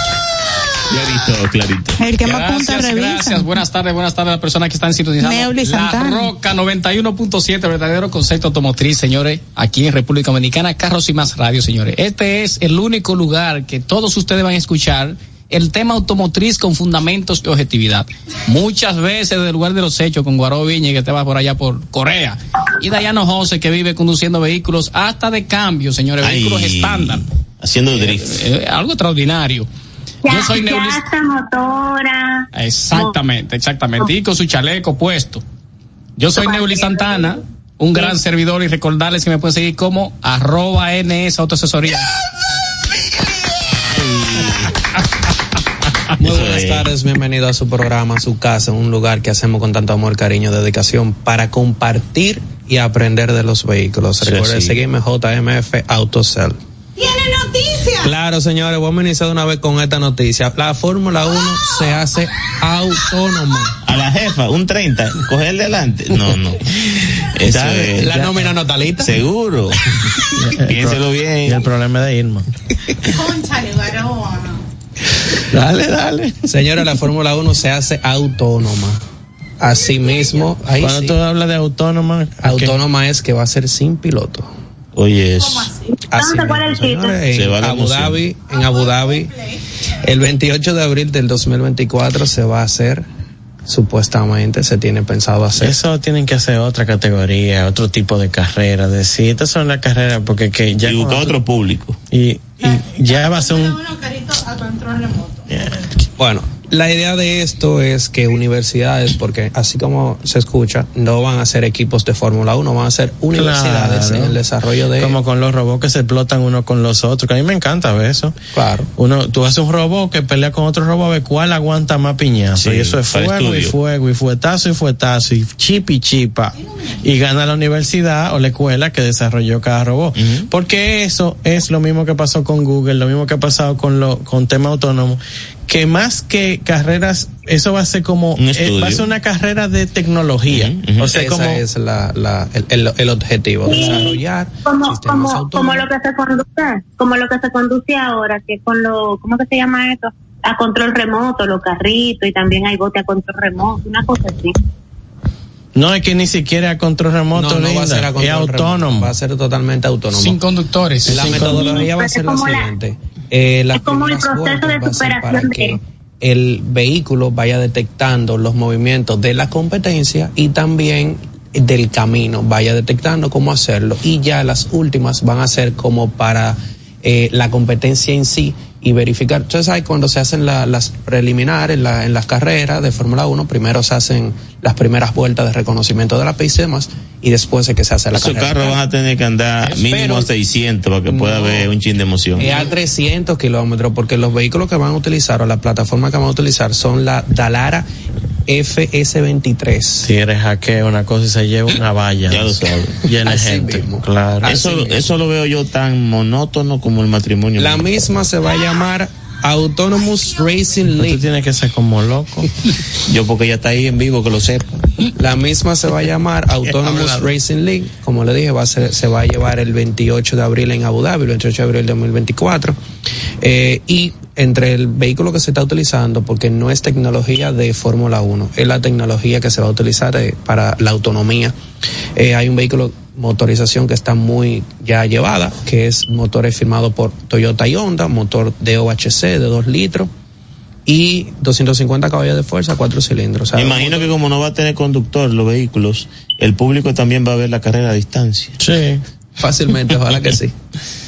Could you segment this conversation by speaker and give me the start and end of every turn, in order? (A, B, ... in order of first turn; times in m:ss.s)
0:00.8-0:02.0 A
0:02.0-0:03.6 B
0:02.2-0:27.2 C
0:05.2-0:06.3 B
0:26.2-0:28.4 A
0:27.9-0:29.7 C
0:30.2-0:33.1 D
0:30.3-0:31.0 C
0:32.5-0:35.4 C
0:36.2-0:42.1 C
0:36.4-0:37.3 D
0:43.9-0:44.8 A
0:46.2-0:56.6 E
0:46.2-0:46.9 A
0:54.2-0:54.8 A
0:57.0-0:58.0 B
0:57.9-1:03.7 E
1:03.8-1:08.1 A
1:07.4-1:09.1 E
1:08.0-1:08.5 F
1:09.0-1:11.6 A
1:10.3-1:12.5 F
1:13.1-1:14.6 B
1:15.3-1:16.6 F
1:16.5-1:19.0 E
1:19.6-1:21.2 E
1:20.8-1:22.8 F
1:22.4-1:24.5 E
1:25.0-1:25.7 A
1:25.9-1:27.2 D
1:26.1-1:29.4 E
1:27.3-1:28.2 A
1:29.9-1:33.0 E
1:33.6-1:35.7 E
1:35.6-1:41.3 F
1:40.8-1:42.0 A
1:42.1-1:43.8 F
1:43.5-1:45.4 B
1:45.5-1:46.1 F
1:46.2-1:55.2 E
1:53.3-1:54.4 F
1:55.0-1:58.4 F
1:58.5-1:58.9 E
1:59.0-2:21.6 F
2:02.6-2:03.7 A
2:10.2-2:10.5 A
2:18.4-2:19.0 A
2:20.5-2:21.1 A
2:21.1-2:25.9 E
2:23.6-2:34.6 D
2:35.7-2:39.1 F
2:37.3-2:40.4 E
2:40.1-2:41.5 C
2:41.0-3:08.8 E
2:41.1-2:41.8 F
2:41.4-2:42.7 D
2:43.7-2:45.8 D
3:08.1-3:12.6 A
3:09.7-3:09.9 C
3:09.7-3:10.3 E
3:11.1-3:11.7 E
3:12.4-3:17.8 E
3:18.5-3:20.1 E
3:20.0-3:24.6 F
3:22.3-3:23.0 A
3:23.2-3:25.1 E
3:24.4-3:27.9 A
3:27.6-3:31.2 E
3:30.9-3:32.5 F
3:33.0-3:35.1 A
3:35.2-3:42.8 E
3:36.6-3:37.3 F
3:43.4-3:51.6 E
3:52.1-4:00.1 E
4:00.8-4:04.1 E
4:03.5-4:08.6 A
4:08.6-4:09.0 F
4:09.4-4:10.5 E